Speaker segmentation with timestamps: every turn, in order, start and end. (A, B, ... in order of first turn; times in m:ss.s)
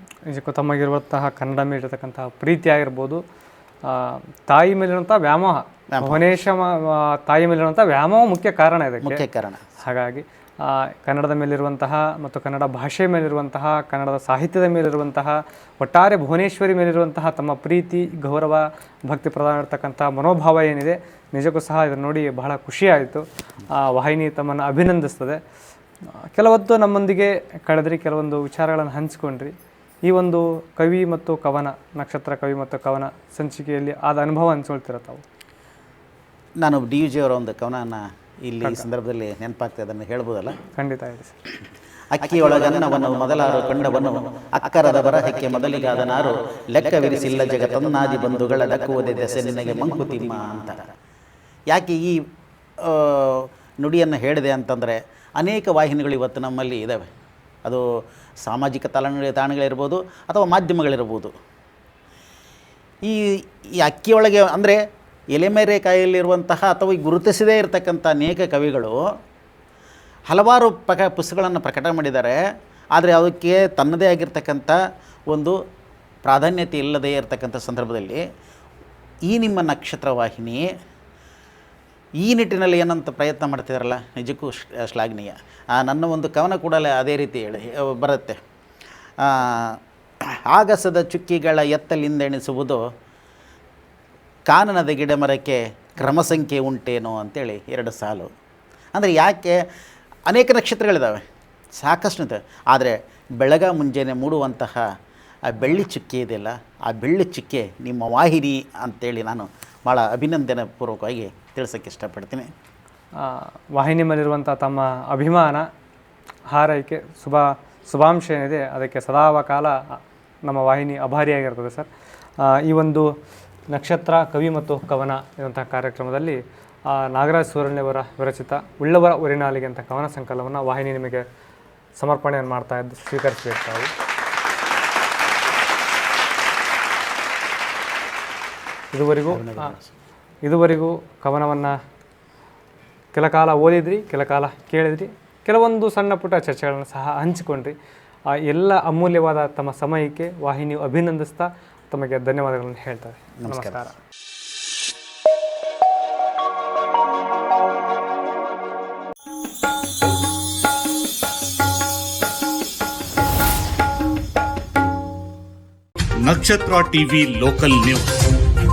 0:00.3-0:03.2 A
0:03.9-0:09.2 A
0:05.9-0:06.4 B
0:09.0-0:09.6 B
0:09.8-0:25.4 A
0:26.3-0:29.5 A
0:30.0-0:35.2 A
0:36.6-0:40.6 B
0:40.7-0:41.4 A
0:42.1-0:50.9 B
0:51.7-0:52.2 B
0:52.8-0:57.1 B
0:58.4-1:01.3 B
1:03.0-1:04.8 B
1:05.3-1:09.0 B
1:10.3-1:12.4 B
1:12.9-1:14.8 B
1:15.3-1:15.6 B
1:16.2-1:18.2 B
1:19.3-1:20.7 B
1:22.2-1:28.4 B
1:29.2-1:29.8 B
1:30.5-1:32.8 B
1:34.5-1:38.3 B
1:39.0-1:39.6 B
1:40.3-1:41.2 B
1:41.8-1:44.8 B
1:45.5-1:52.5 B
1:53.2-1:55.7 A
1:56.5-2:01.9 A
2:02.4-2:03.1 A
2:03.7-2:06.4 A
2:06.9-2:11.2 A
2:12.0-2:13.9 A
2:18.9-2:19.7 A
2:19.3-2:19.9 B
2:20.4-2:21.8 A
2:23.1-2:27.8 A
2:28.4-2:34.0 A
2:33.4-2:33.8 B
2:46.2-2:48.3 C